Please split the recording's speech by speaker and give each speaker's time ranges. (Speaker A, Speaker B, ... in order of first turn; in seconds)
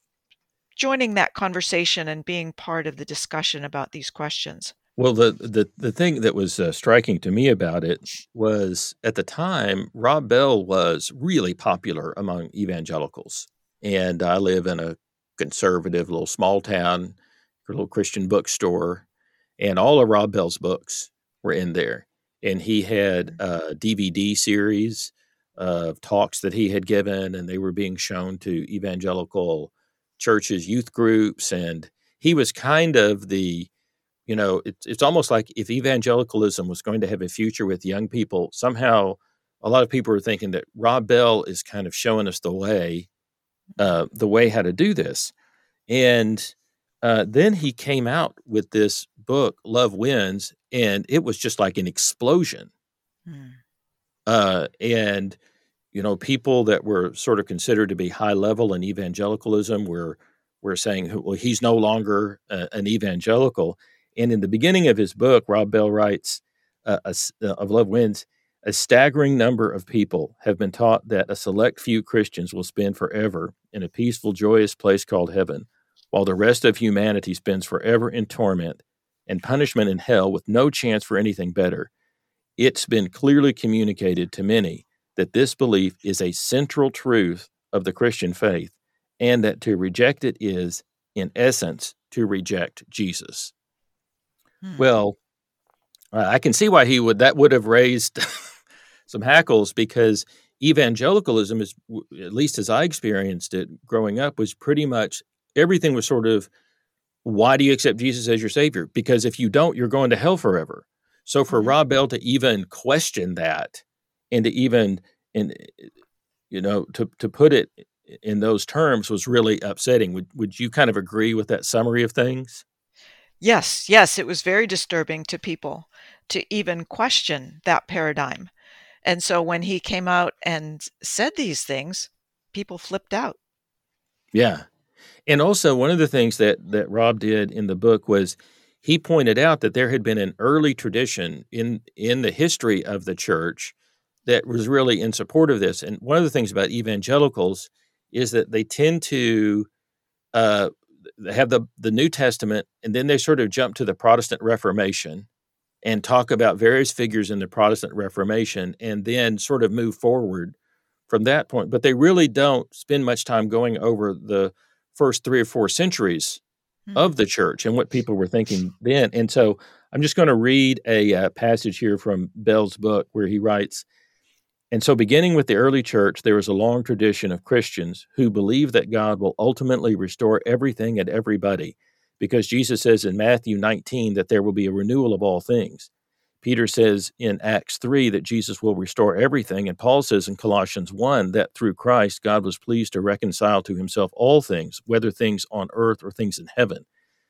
Speaker A: 0.8-4.7, 53.3-53.6, 94.6-94.9, 111.5-111.8, 123.4-128.5, 129.1-133.4
Speaker B: 5.0-19.1, 19.6-33.7, 34.3-43.1, 43.8-45.3, 45.9-52.7, 54.3-55.4, 55.9-81.9, 82.6-93.5, 94.8-95.2, 96.1-98.5, 99.1-106.5, 107.2-115.9, 116.5-122.6, 134.3-134.7, 135.3-143.8, 144.3-149.7, 150.3-155.3, 155.8-160.5, 161.1-166.4, 167.0-173.8, 174.7-185.9, 186.4-196.8